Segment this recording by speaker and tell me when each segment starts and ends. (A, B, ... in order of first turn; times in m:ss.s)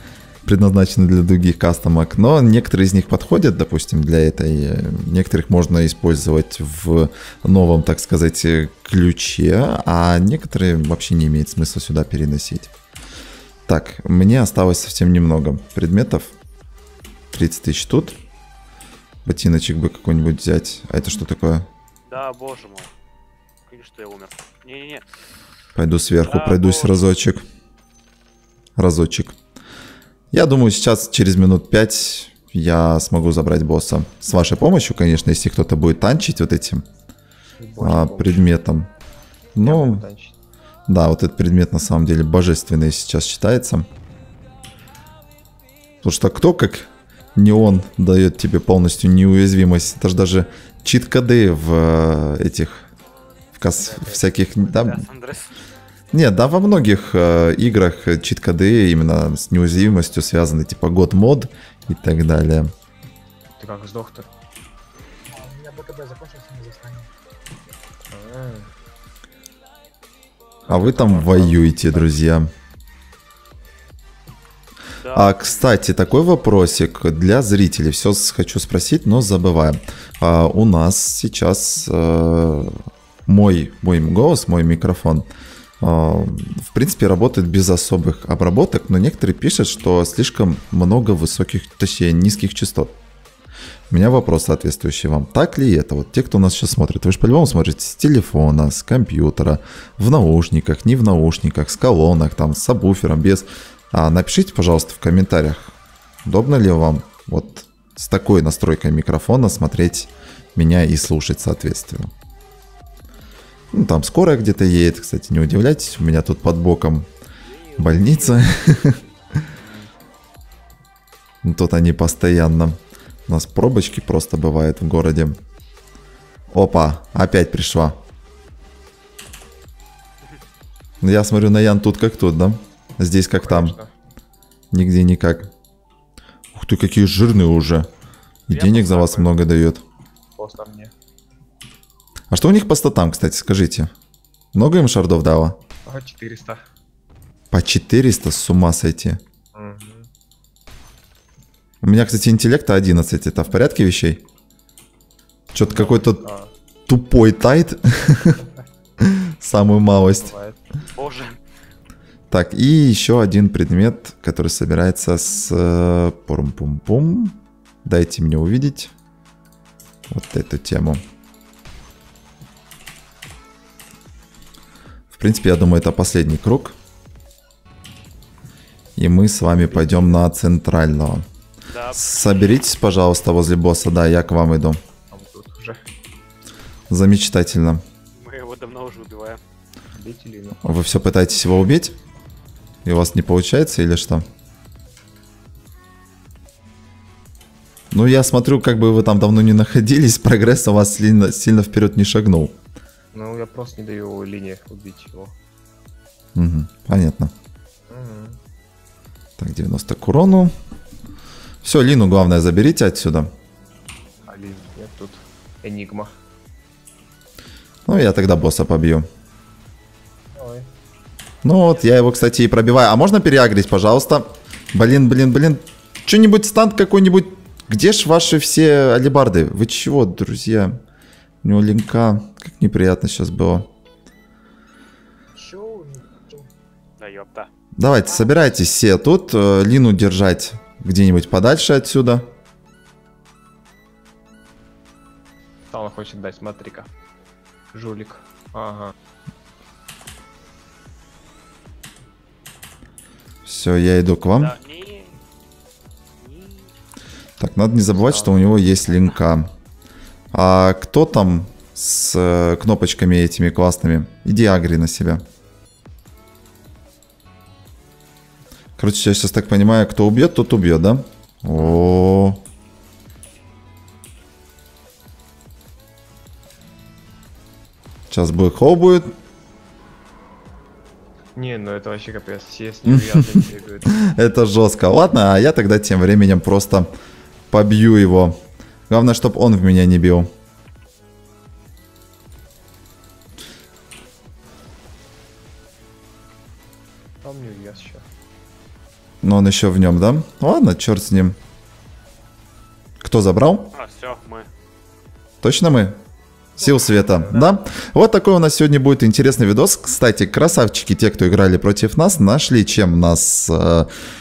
0:00.4-0:12.7 A
0:13.7-0:16.3 A
0:17.3-0:18.2 A
0:19.2-0:21.7 A
0:22.0-0:22.9 B
0:23.7-0:25.0 B
0:25.8-0:27.4 A
0:26.2-0:27.1 B
0:28.8-0:29.3 A
0:30.3-0:36.8 A
0:37.5-0:38.5 C
0:37.8-0:38.9 A
0:39.6-0:40.0 A
0:39.6-0:40.4 C
0:40.9-0:43.9 A
0:46.0-0:52.9 A
0:53.6-0:55.0 A
0:53.8-0:55.6 B
0:56.1-1:02.7 A
1:03.6-1:04.3 C
1:05.3-1:07.1 D
1:08.1-1:08.7 C
1:10.6-1:12.1 C
1:10.7-1:12.5 A
1:15.0-1:15.8 B
1:15.1-1:25.3 A
1:25.8-1:33.0 A
1:33.9-1:52.1 A
1:53.7-1:57.1 A
1:57.4-1:59.1 B
1:57.8-1:59.4 A
1:59.5-1:59.9 C
2:01.4-2:05.4 A
2:06.5-2:08.0 A
2:11.0-2:13.7 A
2:13.4-2:13.9 C
2:14.7-2:15.5 A
2:16.5-2:17.9 A
2:18.5-2:19.8 A
2:18.5-2:19.4 B
2:20.3-2:20.9 C
2:22.3-2:23.9 A
2:24.5-2:25.6 A
2:25.8-2:26.6 C
2:27.5-2:29.2 A
2:29.5-2:30.1 C
2:31.8-2:34.2 A
2:35.5-2:36.2 A
2:35.7-2:36.5 C
2:36.9-2:38.4 A
2:39.0-2:40.3 A
2:40.0-2:40.6 C
2:40.9-2:41.4 B
2:42.3-2:48.9 A
2:50.1-2:51.0 A
2:55.1-2:56.8 A
2:59.0-3:01.2 A
2:59.6-3:00.2 C
3:01.7-3:02.5 B
3:01.9-3:04.8 A
3:05.1-3:05.8 C
3:06.9-3:07.8 A
3:08.1-3:09.4 B
3:09.9-3:10.6 C
3:10.6-3:12.0 A
3:12.8-3:14.3 A
3:17.9-3:22.6 A
3:23.1-3:25.4 C
3:26.4-3:27.3 A
3:27.9-3:28.4 C
3:29.4-3:30.5 A
3:31.6-3:33.3 A
3:34.2-3:36.1 C
3:37.8-3:39.1 A
3:40.3-3:40.7 C
3:41.4-3:50.8 A
3:51.4-3:53.7 A
3:55.3-3:56.5 D
3:57.0-3:57.5 B
3:57.8-4:02.3 A
4:05.7-4:06.9 C
4:07.7-4:08.9 C
4:13.4-4:14.5 A
4:14.3-4:15.2 B
4:16.2-4:16.7 B
4:17.4-4:19.5 A
4:17.9-4:18.8 C
4:20.3-4:25.2 A
4:28.8-4:32.4 A
4:38.1-4:39.1 A
4:41.3-4:44.1 C
4:42.8-4:46.9 A
4:47.5-4:50.3 A
4:57.2-4:58.0 C
4:59.2-5:01.4 A
5:03.0-5:03.7 A
5:03.7-5:04.5 B
5:05.4-5:06.0 A
5:06.6-5:07.5 C
5:06.6-5:13.9 A